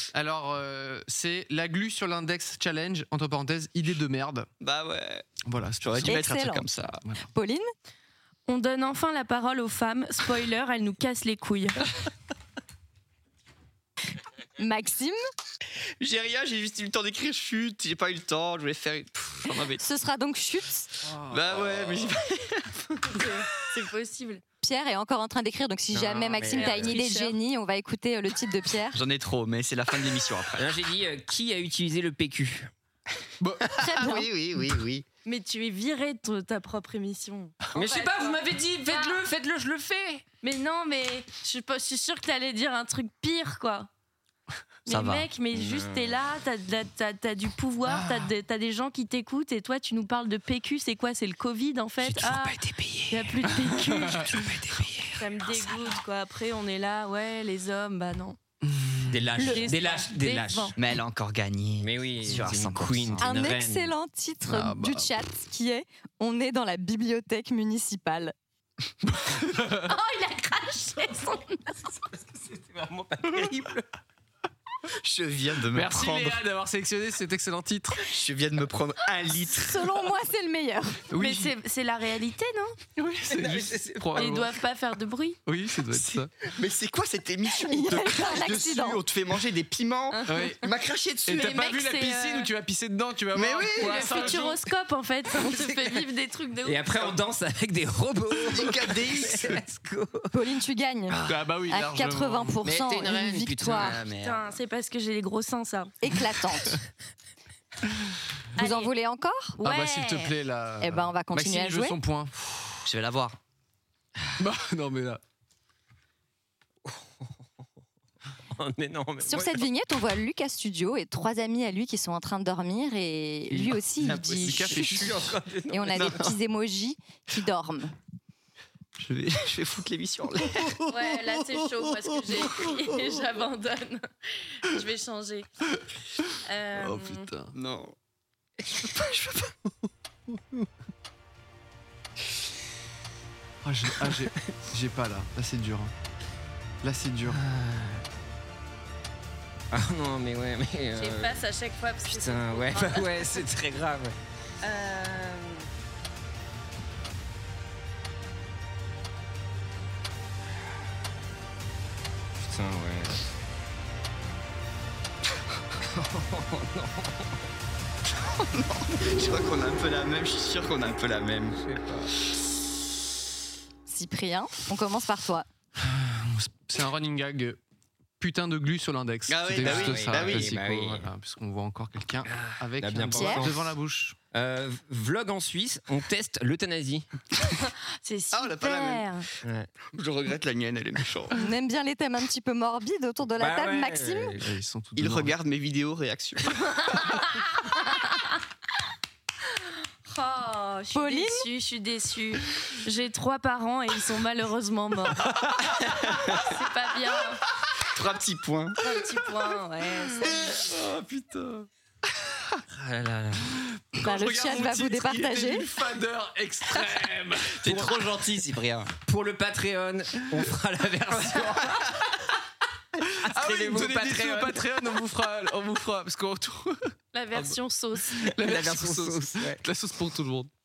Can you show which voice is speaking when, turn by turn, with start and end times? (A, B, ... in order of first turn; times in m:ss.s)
0:00.1-0:04.5 A
0:04.6-0:05.3 B
0:05.4-0:06.2 A
0:05.8-0:07.0 B
0:06.0-0:06.7 C
0:07.2-0:07.7 C
0:08.5-0:11.8 D
0:14.6-0:15.2 C
0:16.0-0:19.8 B
0:19.8-0:20.9 C
0:21.0-0:22.2 E
0:21.3-0:22.7 B
0:23.0-0:24.4 D
0:24.6-0:29.0 C
0:25.9-0:27.0 E
0:26.4-0:27.4 D
0:28.9-0:30.6 B
0:30.5-0:32.7 E
0:33.4-0:33.6 A
0:33.8-0:34.3 C
0:33.8-0:35.0 B
0:35.2-0:39.2 D
0:37.7-0:40.2 E
0:40.4-0:43.9 D
0:44.8-0:54.4 D
0:44.9-0:45.3 B
0:45.5-0:46.3 E
0:52.0-0:53.5 E
0:53.5-0:54.2 A
0:54.2-0:55.9 E
0:55.2-0:58.4 D
0:58.6-0:59.2 A
0:59.1-1:00.8 E
0:59.5-1:00.7 D
1:00.8-1:03.3 B
1:01.8-1:03.9 E
1:03.2-1:08.3 C
1:04.5-1:05.1 A
1:09.0-1:09.9 A
1:09.8-1:11.7 D
1:12.3-1:13.9 E
1:15.0-1:16.4 B
1:15.7-1:18.0 A
1:18.0-1:20.0 B
1:19.4-1:21.0 C
1:21.1-1:21.5 A
1:21.2-1:22.8 D
1:23.0-1:24.5 A
1:23.3-1:24.5 E
1:24.2-1:25.4 D
1:25.4-1:26.3 A
1:25.9-1:31.6 B
1:27.6-1:29.0 C
1:30.1-1:30.6 D
1:30.3-1:30.6 A
1:31.2-1:34.6 A
1:31.3-1:32.5 D
1:33.3-1:34.4 B
1:33.8-1:37.0 D
1:35.4-1:36.0 E
1:36.6-1:40.3 E
1:38.5-1:39.6 B
1:40.3-1:44.0 C
1:41.2-1:42.6 A
1:42.6-1:44.0 E
1:43.7-1:44.5 B
1:44.2-1:45.9 D
1:46.0-1:46.8 C
1:48.6-1:48.9 D
1:48.6-1:49.6 C
1:49.6-1:50.3 D
1:49.6-1:52.3 A
1:50.8-1:52.0 C
1:52.8-1:53.4 B
1:54.4-1:55.2 A
1:56.8-1:57.3 E
1:58.5-1:59.6 E
1:59.2-2:04.9 C
2:04.0-2:04.7 B
2:04.4-2:05.3 A
2:04.5-2:06.3 E
2:05.7-2:07.9 C
2:05.9-2:06.3 B
2:09.0-2:10.9 B
2:10.9-2:15.5 D
2:16.4-2:17.3 D
2:16.7-2:17.5 A
2:17.5-2:17.9 B
2:18.9-2:19.6 B
2:23.6-2:25.9 A
2:24.0-2:24.5 E
2:26.8-2:27.4 A
2:27.3-2:28.0 E
2:29.7-2:31.4 E
2:31.0-2:33.4 D
2:32.0-2:34.2 E
2:34.6-2:35.6 D
2:42.4-2:43.2 E
2:45.8-2:47.4 E
2:48.2-2:51.6 B
2:51.6-2:52.1 E
2:53.8-2:55.4 C
2:55.8-2:57.6 A
2:58.2-3:04.2 A
2:59.3-3:00.5 B
2:59.6-3:01.1 E
3:02.2-3:03.6 E
3:03.1-3:03.5 C
3:04.3-3:07.1 E
3:08.0-3:09.2 D
3:08.3-3:09.1 B
3:09.4-3:09.7 E
3:09.9-3:11.4 B
3:11.3-3:14.4 C
3:13.4-3:14.4 E
3:14.4-3:15.4 A
3:15.0-3:16.6 B
3:17.1-3:18.3 D
3:20.1-3:25.3 D
3:20.9-3:21.5 C
3:25.9-3:26.4 B
3:26.4-3:27.4 D
3:27.9-3:28.8 B
3:28.8-3:30.5 D
3:30.2-3:31.7 A
3:32.7-3:33.6 E
3:33.9-3:38.1 A
3:34.0-3:35.7 C
3:37.6-3:38.9 B
3:39.0-3:41.9 E
3:43.1-3:44.7 E
3:43.2-3:47.6 A
3:47.1-3:48.3 D
3:48.2-3:50.5 A
3:48.3-3:49.6 E